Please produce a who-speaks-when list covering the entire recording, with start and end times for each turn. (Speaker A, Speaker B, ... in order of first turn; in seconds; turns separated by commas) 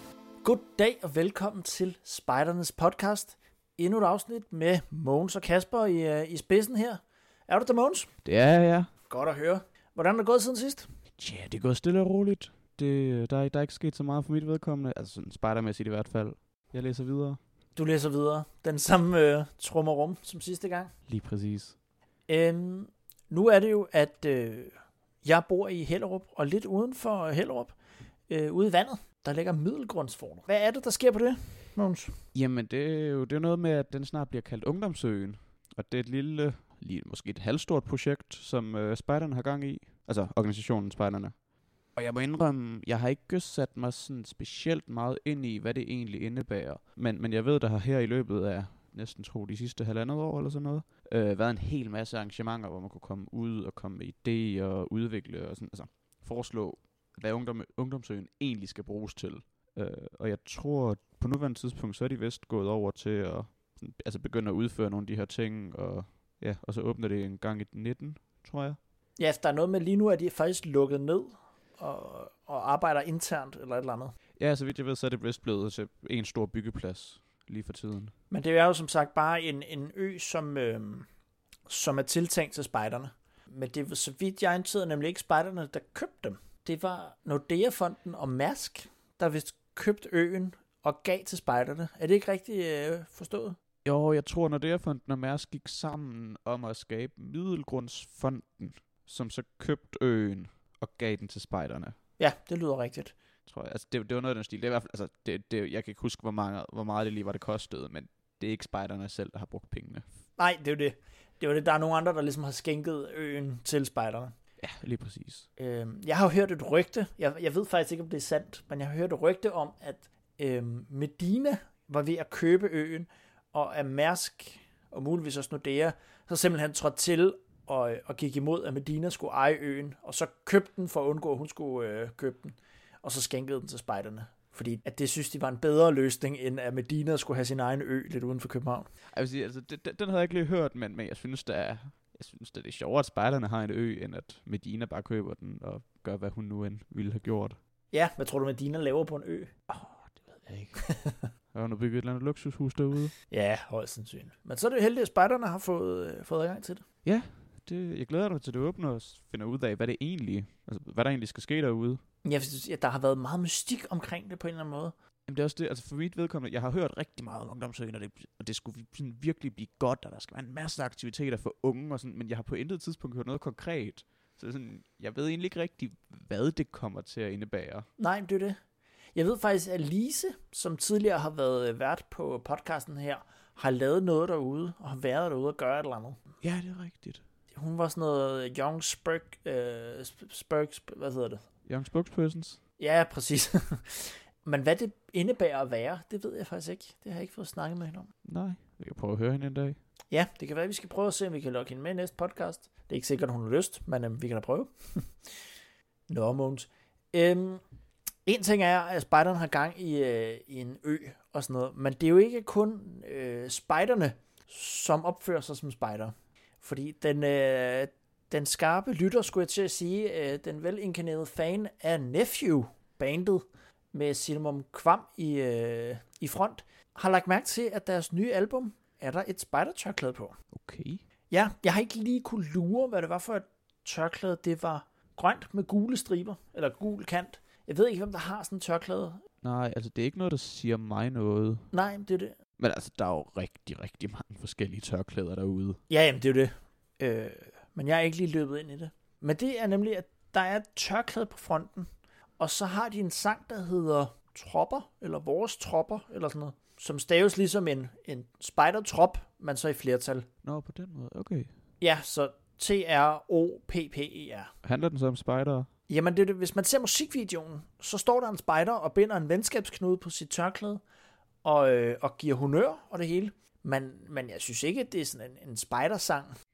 Speaker A: 0.4-8.1, Speaker B: 8.2-8.9, Speaker A: 9.0-10.9, Speaker B: 11.2-17.4, Speaker A: 17.7-20.9, Speaker B: 21.1-21.8, Speaker A: 22.3-32.2, Speaker B: 32.3-68.8, Speaker A: 69.2-74.1, Speaker B: 74.4-78.1, Speaker A: 78.3-81.1, Speaker A: 81.7-93.6, Speaker B: 93.8-102.0, Speaker A: 102.2-103.1, Speaker B: 103.5-110.2, Speaker A: 110.4-114.3, Speaker B: 114.6-115.5, Speaker A: 115.6-138.9, Speaker B: 139.1-147.6, Speaker A: 147.9-149.5, Speaker B: 149.7-153.1, Speaker A: 153.3-156.8, Speaker B: 157.0-162.0, Speaker A: 162.2-164.9, Speaker B: 165.3-177.9, Speaker A: 178.0-178.6, Speaker A: 179.1-186.2, Speaker B: 186.4-187.2, Speaker A: 187.5-191.4, Speaker B: 191.6-192.6, Speaker A: 192.8-198.1, Speaker B: 198.2-199.8, Speaker A: 200.1-205.5, Speaker A: 206.1-207.6, Speaker A: 208.2-230.3, Speaker B: 230.5-231.0, Speaker A: 231.3-239.2, Speaker B: 239.4-241.7, Speaker A: 241.7-242.3, Speaker B: 242.6-245.8, Speaker A: 245.9-260.3, Speaker B: 260.4-261.5, Speaker A: 261.8-264.5, Speaker B: 264.6-265.7, Speaker A: 265.9-270.8, Speaker A: 271.4-276.3